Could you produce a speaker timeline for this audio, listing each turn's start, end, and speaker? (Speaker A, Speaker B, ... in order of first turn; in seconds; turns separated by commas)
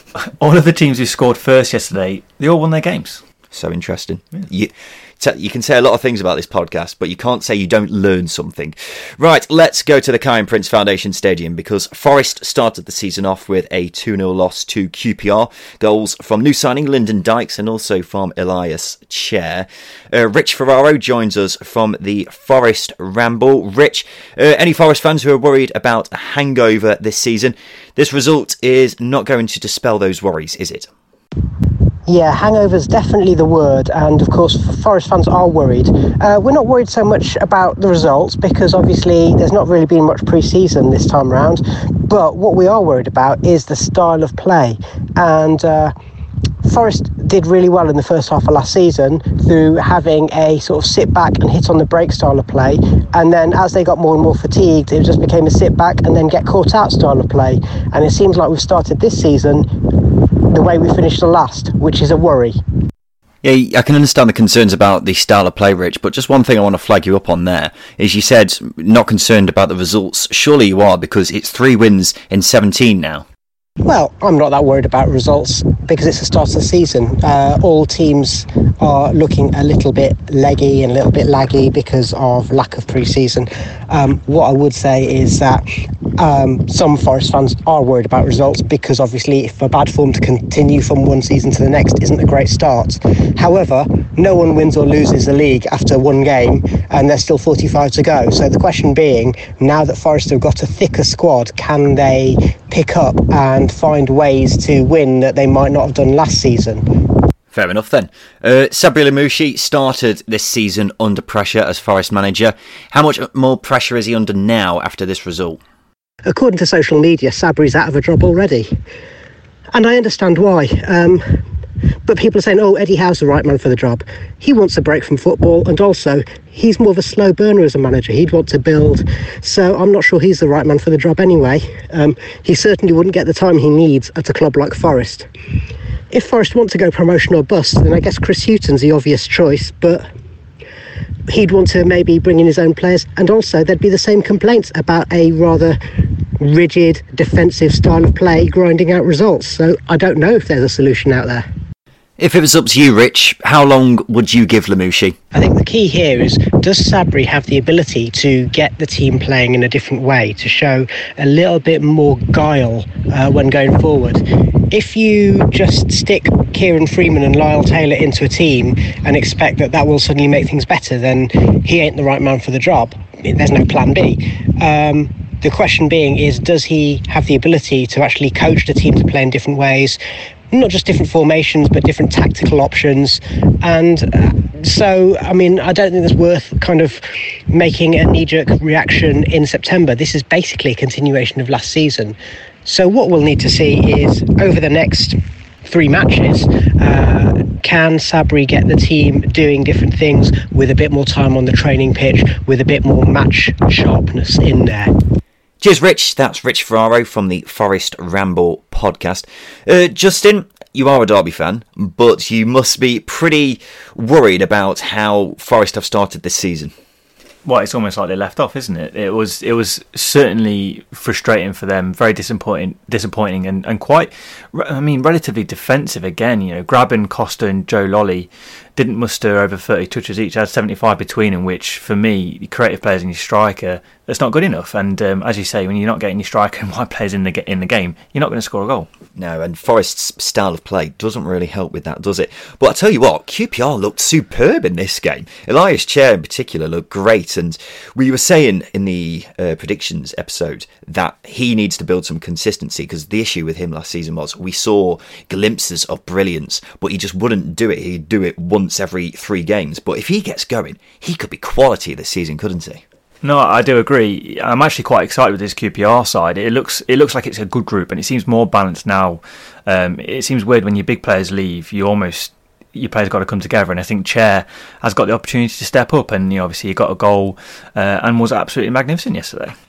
Speaker A: 0.2-3.2, Speaker B: 3.5-30.9, Speaker C: 32.1-45.9, Speaker C: 46.6-62.6, Speaker B: 63.4-73.3, Speaker C: 73.8-106.8, Speaker B: 107.5-115.6, Speaker C: 116.3-118.7, Speaker C: 119.7-121.4, Speaker C: 122.0-135.3, Speaker C: 136.1-140.1, Speaker C: 141.3-151.4, Speaker B: 152.2-155.2, Speaker C: 155.3-180.0, Speaker C: 180.5-204.9, Speaker B: 205.6-216.7, Speaker A: 217.4-238.9, Speaker B: 239.2-262.8, Speaker A: 263.2-279.6